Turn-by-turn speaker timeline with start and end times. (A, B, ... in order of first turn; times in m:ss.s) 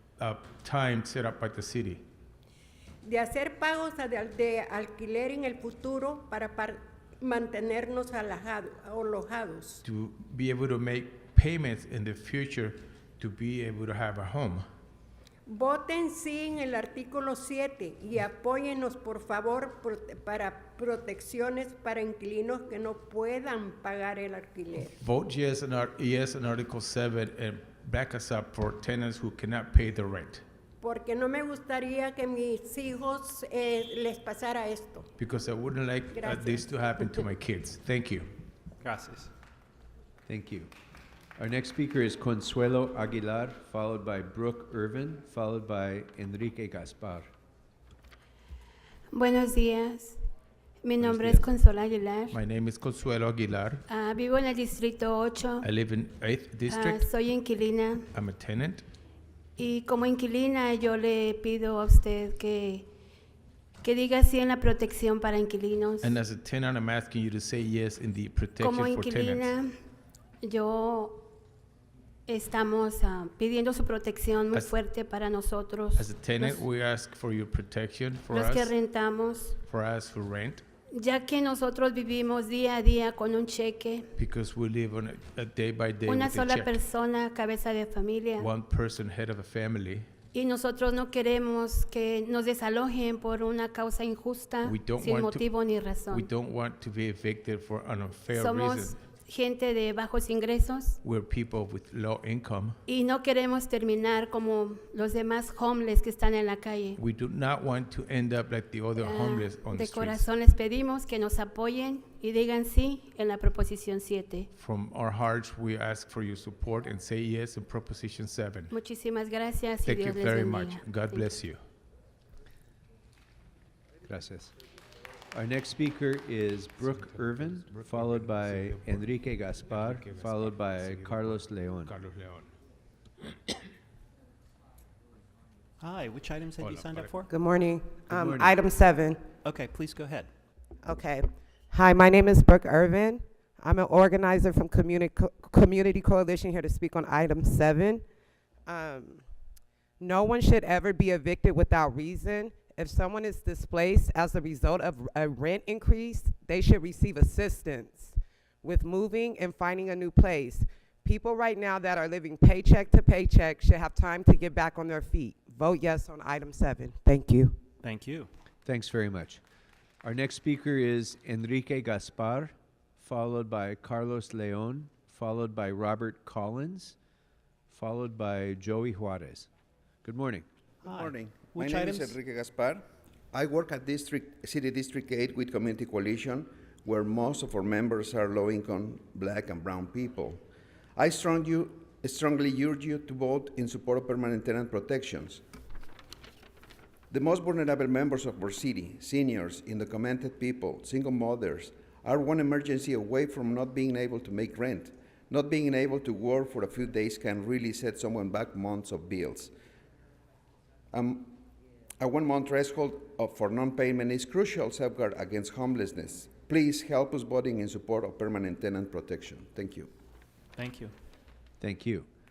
0:00.2-0:02.0 A
0:03.0-0:09.8 B
0:09.8-0:14.6 A
0:15.5-0:25.0 B
0:24.9-0:30.4 A
0:30.8-0:35.1 B
0:35.2-0:38.3 A
0:36.1-0:37.2 B
0:38.8-0:39.3 C
0:40.3-0:40.7 D
0:41.4-0:47.3 D
0:49.1-0:50.2 E
0:50.8-0:52.4 E
0:51.0-0:51.5 A
0:52.3-0:53.8 A
0:53.9-0:55.7 E
0:55.6-0:57.1 A
0:56.7-0:58.1 E
0:58.1-0:58.8 A
0:59.6-1:02.9 E
1:03.8-1:06.2 E
1:06.0-1:09.6 A
1:08.6-1:09.7 E
1:10.4-1:11.3 E
1:12.3-1:16.6 E
1:16.0-1:18.8 A
1:18.3-1:19.6 E
1:19.6-1:20.6 A
1:20.9-1:24.1 E
1:24.2-1:26.8 A
1:26.1-1:28.5 E
1:28.4-1:30.1 A
1:30.3-1:36.3 E
1:34.6-1:35.5 A
1:36.1-1:39.0 A
1:38.4-1:41.0 E
1:41.0-1:42.8 A
1:42.9-1:47.0 E
1:47.0-1:50.3 A
1:49.0-1:54.5 E
1:54.6-1:58.7 A
1:58.7-2:01.3 E
1:59.8-2:01.6 A
2:04.0-2:04.5 D
2:05.3-2:11.9 D
2:06.8-2:12.5 A
2:15.8-2:17.3 C
2:16.6-2:17.2 A
2:17.3-2:19.3 F
2:18.1-2:18.5 D
2:19.4-2:20.3 C
2:20.8-2:28.0 F
2:28.7-2:29.3 F
2:30.0-2:47.6 F
2:47.8-2:48.3 C
2:48.6-2:49.4 D
2:50.0-2:57.0 D
2:57.7-2:59.5 D
3:00.0-3:00.5 D
3:00.8-3:02.2 C
3:00.9-3:10.4 G
3:11.0-3:15.4 G
3:17.1-3:29.5 G
3:30.9-3:31.4 G
3:32.0-3:39.9 G
3:40.6-3:40.9 C
3:41.6-3:42.1 D